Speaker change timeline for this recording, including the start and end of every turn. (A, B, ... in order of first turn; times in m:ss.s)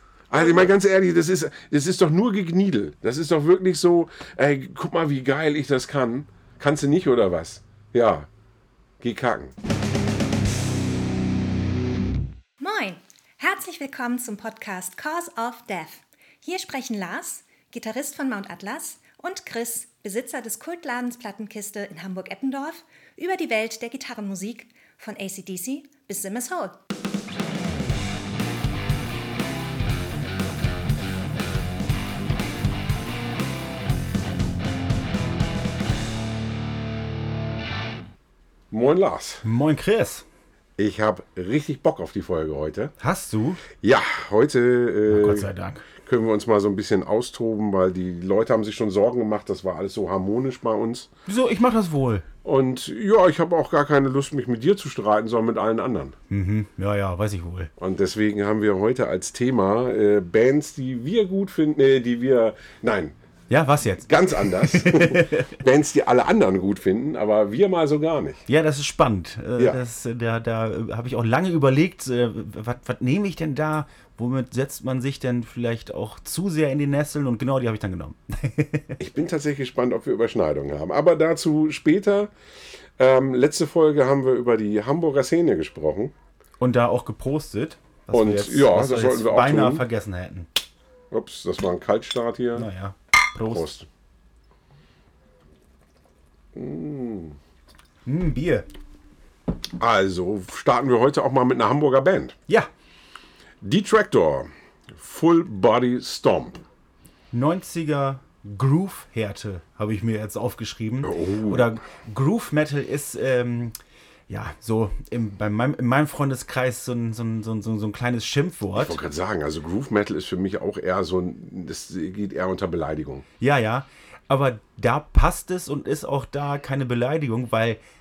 0:00.3-0:08.3 A
0:09.0-0:09.5 A
0:12.6-0:26.8 B
0:38.7-0:39.4 A
0:39.4-0:40.2 C
0:40.8-0:42.9 A
0:43.0-0:43.6 C
0:43.8-0:45.5 A
0:45.1-0:45.8 C
0:46.0-0:51.1 A
0:51.3-0:52.2 C
0:52.4-0:56.2 A
0:56.3-0:57.7 C
0:57.8-1:03.1 A
1:03.5-1:05.6 C
1:04.1-1:08.4 A
1:08.5-1:19.0 C
1:19.0-1:22.3 A
1:23.0-1:26.1 A
1:26.6-1:30.5 C
1:28.1-1:29.8 A
1:31.1-1:32.7 A
1:32.5-1:33.7 C
1:33.5-1:33.9 A
1:36.5-1:37.4 A
1:38.0-1:38.7 C
1:39.8-1:42.4 A
1:43.6-1:46.6 A
1:47.3-1:53.7 C
1:51.0-1:51.7 A
1:54.3-1:59.0 C
1:58.7-2:03.2 A
2:03.4-2:07.8 C